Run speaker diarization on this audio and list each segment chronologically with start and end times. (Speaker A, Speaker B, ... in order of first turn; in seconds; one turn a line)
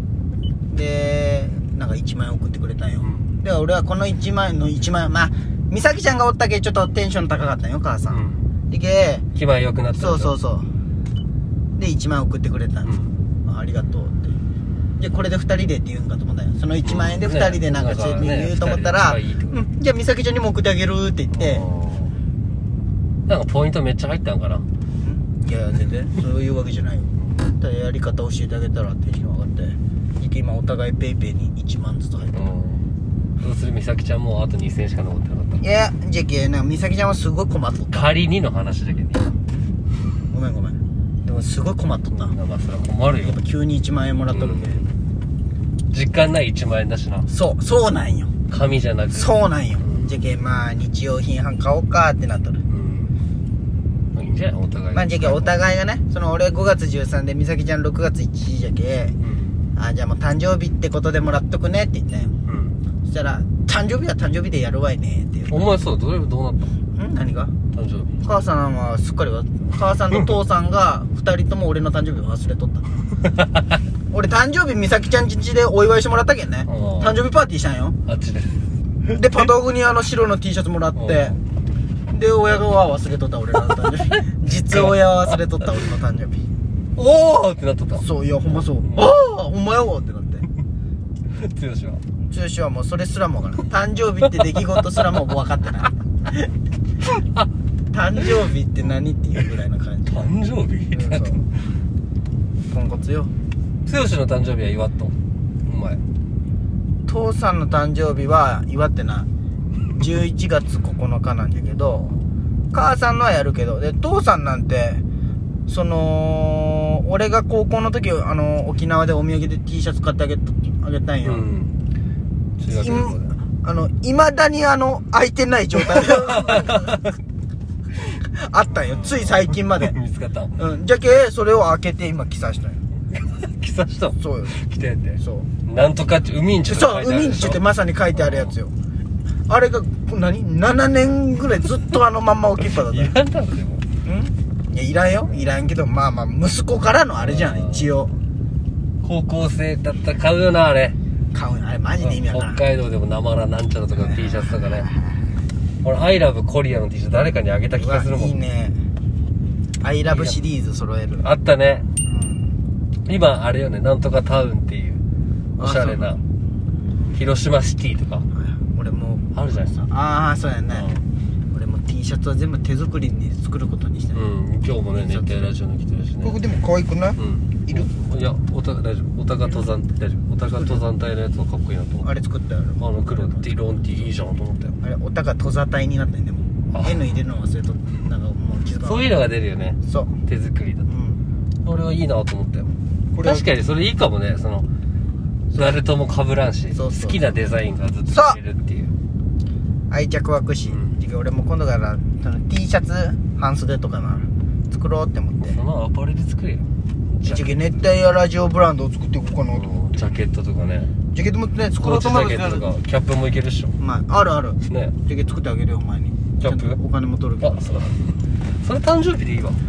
Speaker A: 0.7-9.2
Speaker B: 3.0-3.3
Speaker B: 8.1-8.5
Speaker B: 9.3-10.3
Speaker A: 10.0-10.7
Speaker A: 11.8-14.3
Speaker B: 12.8-13.2
Speaker A: 15.0-21.7
Speaker B: 16.8-19.6
Speaker B: 21.3-22.1
Speaker B: 23.3-24.7
Speaker A: 25.0-32.5
Speaker B: 32.3-32.9
Speaker B: 33.4-35.6
Speaker A: 35.6-38.1
Speaker B: 37.9-39.4
Speaker A: 40.3-42.4
Speaker B: 42.1-43.4
Speaker A: 43.2-44.9
Speaker B: 44.3-44.8
Speaker B: 45.9-47.3
Speaker A: 47.3-48.3
Speaker B: 48.5-50.1
Speaker A: 49.1-52.6
Speaker B: 52.7-53.1
Speaker B: 54.1-55.5
Speaker A: 54.9-59.1
Speaker B: 59.2-59.6
Speaker A: 59.8-62.4
Speaker B: 62.5-62.8
Speaker A: 63.0-65.7
Speaker B: 65.5-66.8
Speaker A: 66.9-67.5
Speaker B: 67.7-68.1
Speaker A: 68.2-73.0
Speaker A: 74.1-78.0
Speaker B: 76.7-77.2
Speaker B: 78.0-78.6
Speaker A: 79.1-81.4
Speaker B: 81.0-81.4
Speaker A: 82.1-86.4
Speaker B: 87.0-89.0
Speaker A: 88.0-90.5
Speaker B: 91.3-92.0
Speaker A: 92.2-96.5
Speaker A: 97.9-100.3
Speaker B: 100.1-101.7
Speaker A: 100.9-101.5
Speaker A: 102.7-103.3
Speaker B: 103.8-106.0
Speaker A: 107.0-109.3
Speaker A: 110.0-112.1
Speaker A: 112.7-115.0
Speaker A: 115.7-121.5
Speaker B: 121.2-121.7
Speaker B: 122.6-123.4
Speaker A: 122.7-127.0
Speaker B: 126.0-127.0
Speaker A: 127.9-129.9
Speaker B: 128.8-130.6
Speaker A: 130.6-132.8
Speaker B: 133.1-138.5
Speaker A: 134.2-134.6
Speaker A: 135.2-135.5
Speaker A: 136.7-138.7
Speaker A: 139.5-143.2
Speaker B: 142.7-143.8
Speaker A: 144.0-148.2
Speaker B: 147.2-147.9
Speaker B: 149.0-151.0
Speaker A: 151.3-152.6
Speaker B: 152.0-154.9
Speaker A: 153.9-155.4
Speaker B: 155.8-158.4
Speaker A: 157.8-158.8
Speaker A: 159.8-161.2
Speaker B: 160.1-160.4
Speaker B: 161.2-161.8
Speaker A: 162.0-162.5
Speaker B: 163.1-165.0
Speaker B: 165.6-166.2
Speaker A: 165.6-166.2
Speaker A: 166.8-167.2
Speaker B: 167.1-168.2
Speaker A: 168.3-170.9
Speaker B: 169.3-169.7
Speaker B: 170.7-171.0
Speaker A: 171.5-174.2
Speaker B: 174.1-176.4
Speaker A: 174.9-175.5
Speaker A: 176.2-177.9
Speaker B: 177.2-182.1
Speaker A: 180.5-180.8
Speaker A: 182.0-183.5
Speaker B: 182.8-184.8
Speaker A: 184.8-189.1
Speaker B: 186.7-187.1
Speaker B: 188.8-190.9
Speaker A: 189.8-190.2
Speaker A: 190.9-191.2
Speaker B: 191.6-192.7
Speaker A: 193.1-193.5
Speaker B: 193.2-194.7
Speaker B: 195.5-198.9
Speaker A: 196.7-197.2
Speaker A: 198.1-198.4
Speaker A: 199.9-205.6
Speaker B: 200.7-200.9
Speaker B: 205.4-207.6
Speaker A: 207.2-209.8
Speaker B: 209.5-210.9
Speaker A: 211.1-212.7
Speaker B: 211.8-213.8
Speaker A: 213.8-217.9
Speaker B: 214.7-214.9
Speaker B: 216.4-216.8
Speaker B: 217.4-219.6